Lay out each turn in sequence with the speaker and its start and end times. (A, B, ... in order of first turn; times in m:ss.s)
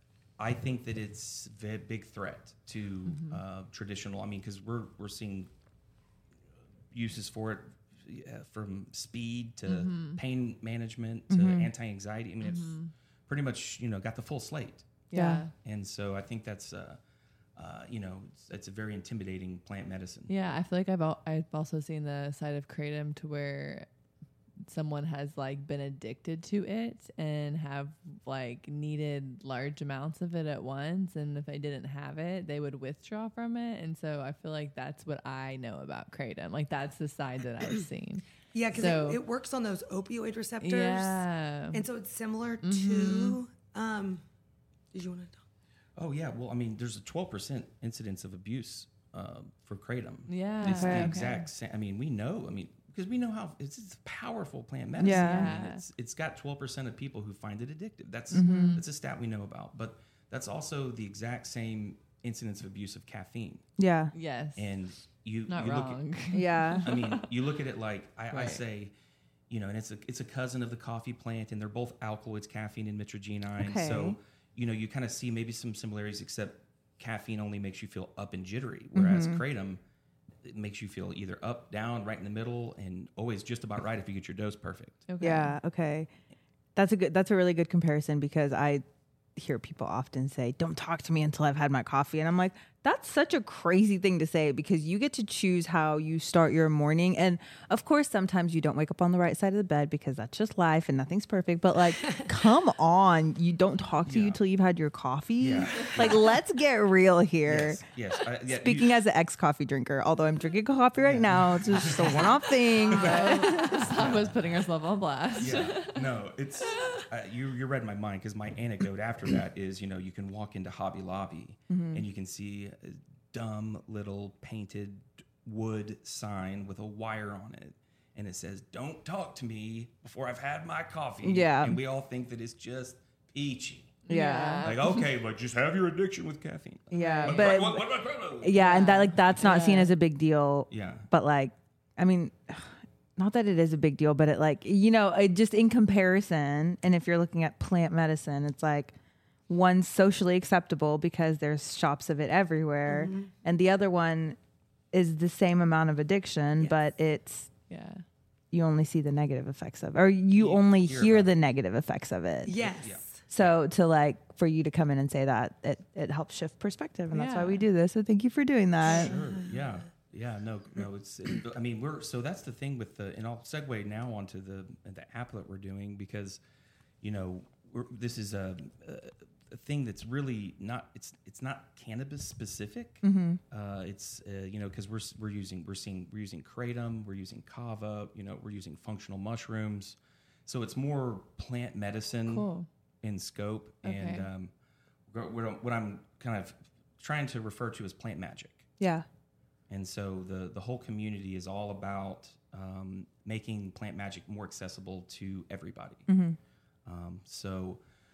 0:00.4-0:05.5 A
0:03.1-0:03.4 B
0:06.9-0:15.0 A
0:09.7-0:10.2 B
0:11.3-0:11.7 C
0:12.4-0:12.9 B
0:15.1-0:15.4 C
0:15.1-0:15.5 B
0:15.6-0:17.0 A
0:17.6-0:20.3 A
0:20.3-0:23.9 B
0:24.7-0:39.2 B
0:38.5-0:44.2 D
0:40.6-0:41.8 B
0:42.6-0:43.4 B
0:44.9-0:45.4 D
0:46.0-1:03.6 A
0:50.3-0:51.4 B
0:50.7-0:51.2 C
0:55.0-0:55.5 C
0:55.0-0:55.8 B
0:58.3-0:58.8 C
0:58.4-0:58.8 B
1:03.8-1:04.1 C
1:04.1-1:04.7 B
1:04.6-1:06.0 A
1:05.5-1:07.3 B
1:06.3-1:06.9 C
1:06.8-1:08.9 A
1:08.3-1:08.6 B
1:09.5-1:19.8 A
1:13.6-1:14.2 C
1:19.0-1:19.4 C
1:20.4-1:25.1 A
1:25.1-1:25.6 B
1:25.2-1:26.1 C
1:26.8-1:28.8 C
1:29.4-1:47.8 C
1:44.1-1:44.4 A
1:45.4-1:46.4 A
1:47.4-1:49.0 A
1:48.5-1:53.8 C
1:51.0-1:54.4 A
1:52.9-1:56.0 B
1:55.4-2:14.0 A
1:56.7-1:57.0 B
2:01.7-2:02.0 C
2:11.2-2:11.8 C
2:14.1-2:15.0 B
2:14.1-2:14.7 C
2:14.6-2:18.6 A
2:16.9-2:17.9 C
2:17.0-2:17.4 B
2:18.4-2:29.0 C
2:18.6-2:19.9 B
2:19.3-2:19.6 A
2:20.7-2:21.1 A
2:29.5-2:34.4 C
2:32.9-2:33.3 D
2:34.9-2:37.5 C
2:37.7-2:38.0 B
2:38.5-2:42.6 C
2:40.3-2:41.3 A
2:42.5-2:43.2 D
2:42.6-2:43.5 A
2:43.3-2:49.1 C
2:47.1-2:47.7 B
2:48.8-2:56.4 A
2:48.8-2:49.7 D
2:57.0-3:12.5 A
3:03.0-3:03.4 C
3:12.3-3:12.7 B
3:13.0-3:14.5 A
3:13.8-3:14.3 B
3:15.1-3:18.7 A
3:18.8-3:19.1 C
3:19.7-3:26.0 A
3:26.1-3:26.4 C
3:26.9-3:27.8 A